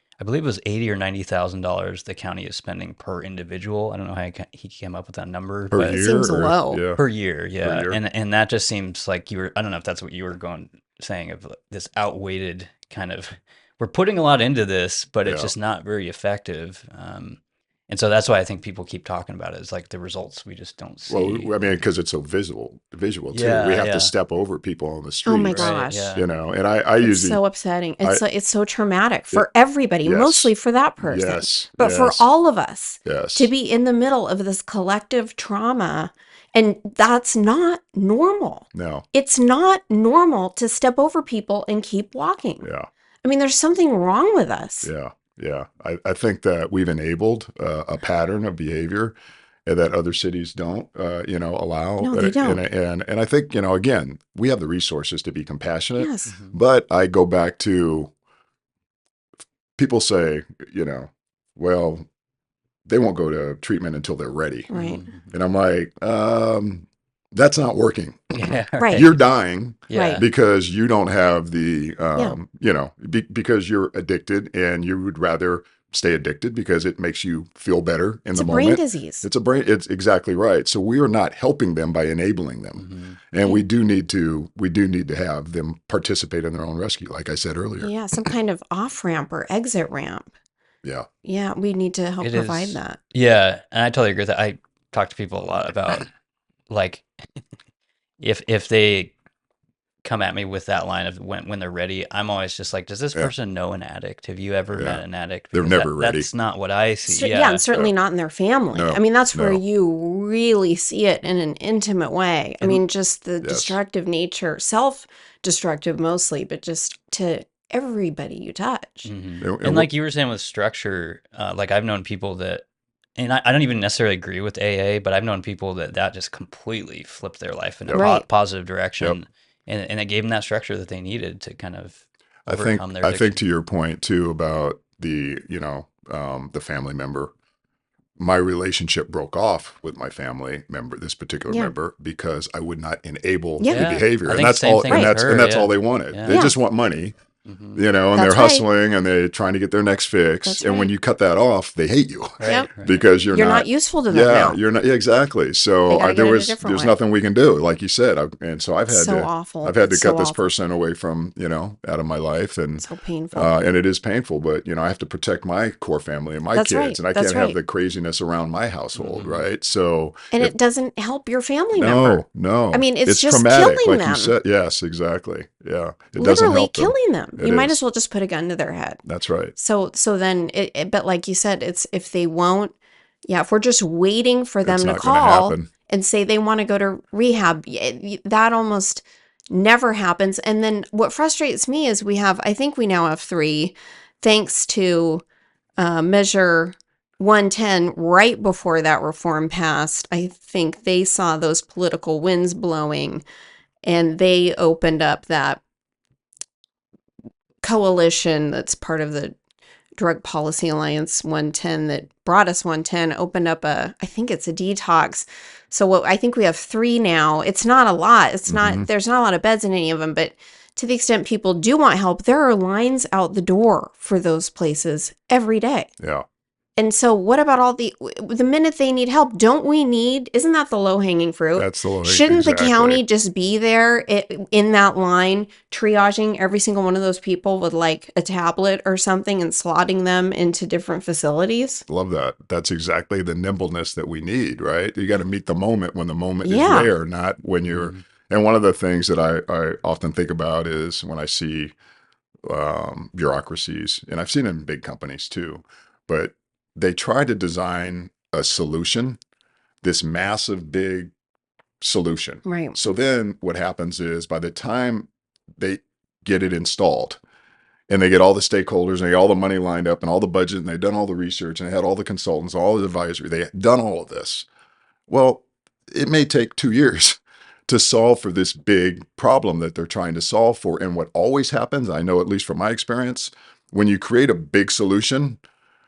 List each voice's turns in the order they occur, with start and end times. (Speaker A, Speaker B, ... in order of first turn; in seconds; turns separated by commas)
Speaker A: 0.2-6.0, Speaker B: 5.7-7.0, Speaker C: 5.9-6.8, Speaker A: 7.0-21.8, Speaker B: 7.6-8.0, Speaker B: 15.2-15.5, Speaker B: 21.1-27.4, Speaker A: 23.3-24.1, Speaker C: 25.3-26.1, Speaker A: 25.5-26.3, Speaker C: 27.0-42.7, Speaker B: 30.0-32.3, Speaker B: 33.0-33.5, Speaker B: 38.7-39.0, Speaker B: 42.6-42.9, Speaker C: 43.2-44.9, Speaker B: 44.8-49.1, Speaker B: 49.7-58.1, Speaker C: 52.0-52.6, Speaker C: 56.0-56.3, Speaker A: 56.3-56.6, Speaker B: 59.8-62.1, Speaker B: 62.9-88.0, Speaker C: 64.7-65.0, Speaker A: 64.7-65.3, Speaker A: 68.3-69.2, Speaker C: 68.8-69.1, Speaker A: 69.9-70.2, Speaker C: 69.9-70.2, Speaker C: 78.3-79.3, Speaker A: 82.8-83.2, Speaker C: 87.8-90.3, Speaker C: 91.2-93.0, Speaker A: 92.2-96.1, Speaker A: 96.7-97.0, Speaker A: 98.2-99.1, Speaker A: 100.0-107.6, Speaker B: 104.7-106.3, Speaker C: 107.1-119.1, Speaker B: 108.7-109.6, Speaker B: 113.4-113.8, Speaker A: 119.0-122.7, Speaker B: 119.4-119.9, Speaker A: 123.2-133.4, Speaker C: 127.9-128.3, Speaker B: 132.5-137.3, Speaker B: 138.2-147.2, Speaker C: 141.5-141.7, Speaker C: 143.6-144.0, Speaker A: 143.7-146.4, Speaker C: 144.9-145.2, Speaker C: 146.3-146.6, Speaker A: 147.4-147.8, Speaker B: 147.8-170.5, Speaker C: 148.2-148.7, Speaker C: 150.5-150.9, Speaker A: 152.4-153.1, Speaker C: 152.4-152.7, Speaker C: 153.3-154.6, Speaker C: 155.9-156.9, Speaker C: 158.9-160.4, Speaker C: 162.8-163.5, Speaker C: 166.5-167.6, Speaker A: 168.9-169.5, Speaker C: 170.3-174.3, Speaker B: 171.7-177.8, Speaker C: 176.2-179.0, Speaker B: 179.1-179.6, Speaker C: 179.6-182.8, Speaker C: 183.3-195.2, Speaker B: 184.7-185.7, Speaker C: 195.8-203.2, Speaker C: 203.8-205.6, Speaker C: 207.6-209.3, Speaker C: 210.0-225.9, Speaker B: 218.5-218.9, Speaker C: 226.8-241.8, Speaker B: 231.6-233.0, Speaker B: 241.9-251.7, Speaker C: 246.4-246.9, Speaker A: 247.7-248.0, Speaker B: 252.5-259.2, Speaker B: 259.8-261.1, Speaker B: 261.8-267.2, Speaker C: 262.5-262.8, Speaker B: 267.9-274.5, Speaker B: 275.1-285.4